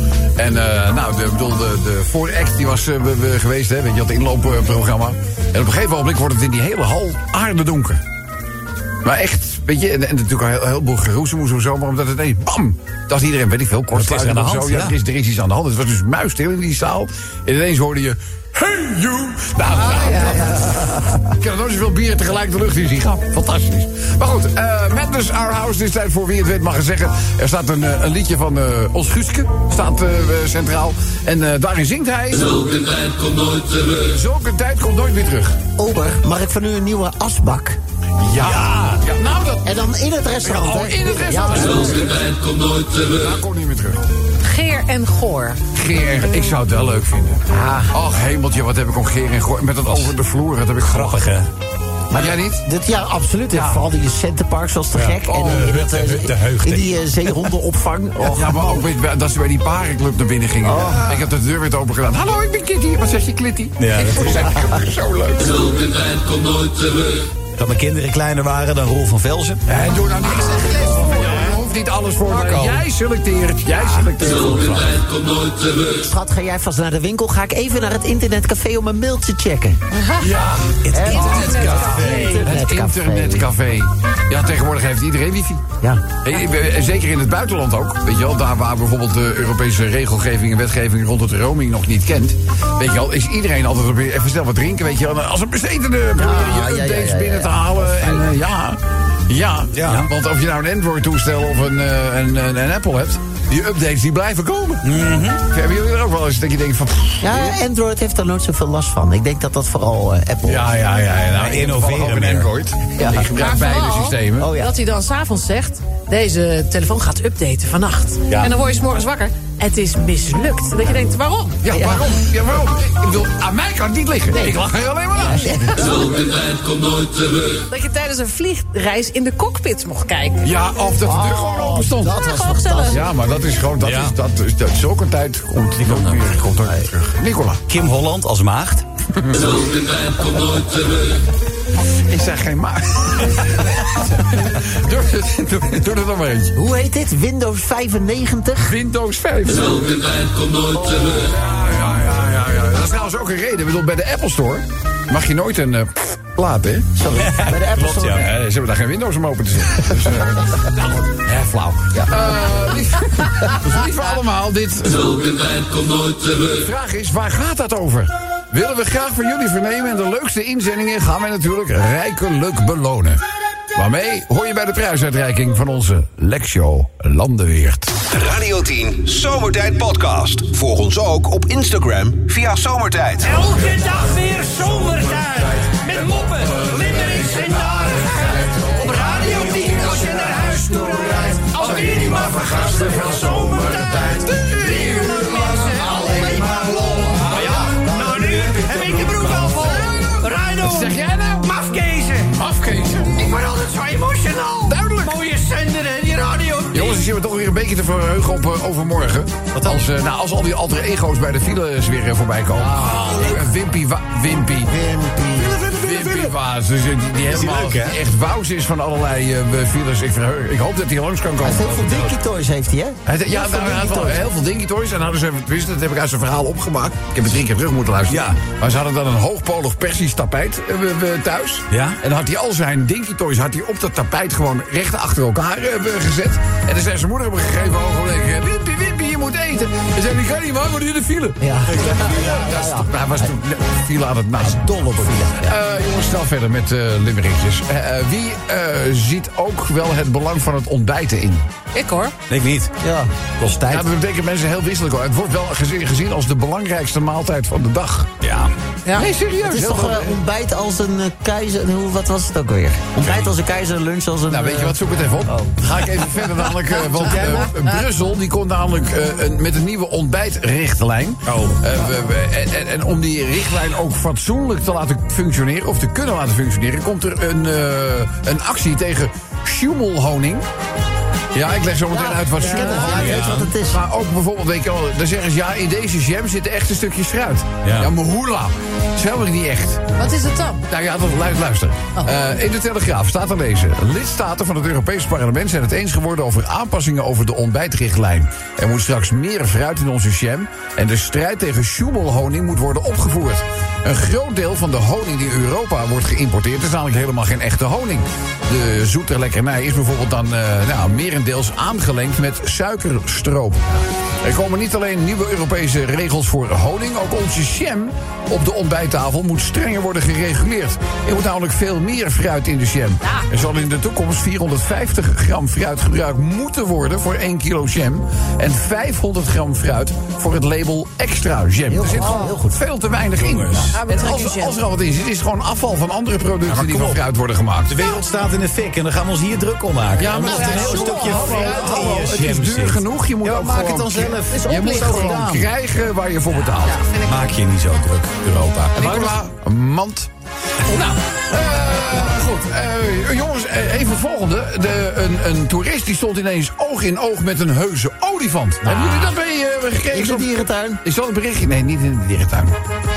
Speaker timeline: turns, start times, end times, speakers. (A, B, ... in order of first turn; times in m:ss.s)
0:00.4-0:08.0 A
0:09.0-0:33.0 A
0:13.9-0:15.0 B
0:19.7-0:20.5 C
0:20.2-0:20.9 D
0:33.8-0:35.6 A
0:35.8-0:37.8 D
0:38.2-0:39.8 A
0:38.4-0:39.0 B
0:39.6-0:42.0 D
0:40.4-0:44.0 A
0:44.4-0:45.6 C
0:45.7-0:51.2 A
0:47.5-0:48.0 D
0:50.8-0:51.5 B
0:52.1-0:58.6 D
0:52.1-0:52.6 A
0:53.5-0:53.9 A
0:54.9-0:57.3 B
0:55.2-0:55.9 A
0:58.2-1:05.9 A
1:00.6-1:01.2 D
1:03.8-1:04.7 B
1:04.1-1:04.4 D
1:07.6-1:09.6 B
1:09.7-1:15.0 A
1:12.3-1:12.8 B
1:16.0-1:19.8 D
1:19.9-1:20.3 C
1:20.2-1:25.7 A
1:20.8-1:22.5 B
1:20.9-1:23.5 D
1:21.0-1:22.4 C
1:26.2-1:47.6 A
1:36.2-1:38.3 D
1:39.7-1:40.1 B
1:44.8-1:45.4 B
1:47.2-1:50.7 D
1:50.4-1:54.5 A
1:51.3-1:52.5 B
1:53.0-1:53.3 D
1:53.4-2:01.6 C
1:54.4-1:54.7 D
2:01.6-2:05.8 A
2:01.7-2:02.0 D
2:04.3-2:04.6 C
2:05.3-2:06.0 D
2:07.7-2:10.4 C
2:10.4-2:12.2 A
2:11.0-2:13.0 D
2:12.2-2:13.0 C
2:12.9-2:17.6 A
2:13.8-2:14.1 B
2:15.8-2:16.2 B
2:17.7-2:18.8 B
2:19.2-2:19.5 A
2:21.9-2:26.5 A
2:26.6-2:28.7 D
2:28.6-2:30.2 A
2:30.7-2:31.2 D
2:30.9-2:36.9 A
2:37.0-2:38.3 D
2:37.1-2:38.3 B
2:38.1-2:45.7 A
2:46.4-2:53.2 A
2:53.7-2:57.9 A
2:58.1-3:03.4 E
3:03.2-3:22.3 F
3:06.8-3:07.5 A
3:11.6-3:15.9 A
3:15.7-3:17.2 D
3:17.1-3:17.7 A
3:17.8-3:18.0 D
3:19.2-3:21.6 A
3:22.2-3:23.3 A
3:23.1-3:27.0 F
3:24.6-3:25.2 A
3:26.7-3:34.7 A
3:29.5-3:29.9 B
3:32.9-3:33.2 D
3:34.7-3:35.6 D
3:35.6-3:35.9 F
3:35.7-3:36.0 B
3:35.7-3:42.1 A
3:37.3-3:38.0 B
3:41.4-3:44.2 D
3:43.0-4:11.4 A
3:48.1-3:48.4 B
3:51.7-3:52.0 B
4:01.4-4:03.3 D
4:01.7-4:02.4 B
4:04.5-4:05.5 D
4:11.7-4:12.1 C
4:12.3-4:12.7 B
4:12.8-4:13.1 D
4:13.4-4:13.8 B
4:13.6-4:18.1 A
4:18.2-4:18.5 B
4:18.9-4:20.2 A
4:19.4-4:24.8 D
4:23.0-4:23.3 B
4:24.3-4:40.4 A
4:27.0-4:27.4 B
4:31.2-4:31.6 B
4:41.3-4:49.9 A
4:41.9-4:43.8 D
4:42.4-4:43.1 C
4:42.9-4:43.5 B
4:47.6-4:47.9 B
4:50.0-4:50.6 C
4:50.7-5:37.8 A
5:31.7-5:32.6 D
5:32.0-5:32.3 C
5:33.2-5:33.8 B
5:33.7-5:34.6 C
5:36.4-5:37.0 B
5:37.7-5:45.5 B
5:40.0-5:46.8 A
5:40.1-5:42.0 C
5:44.3-5:45.2 C
5:46.4-5:47.3 C
5:47.0-5:49.1 B
5:48.7-5:50.1 A
5:50.6-6:02.6 A
5:58.6-5:59.1 D
5:59.9-6:00.8 D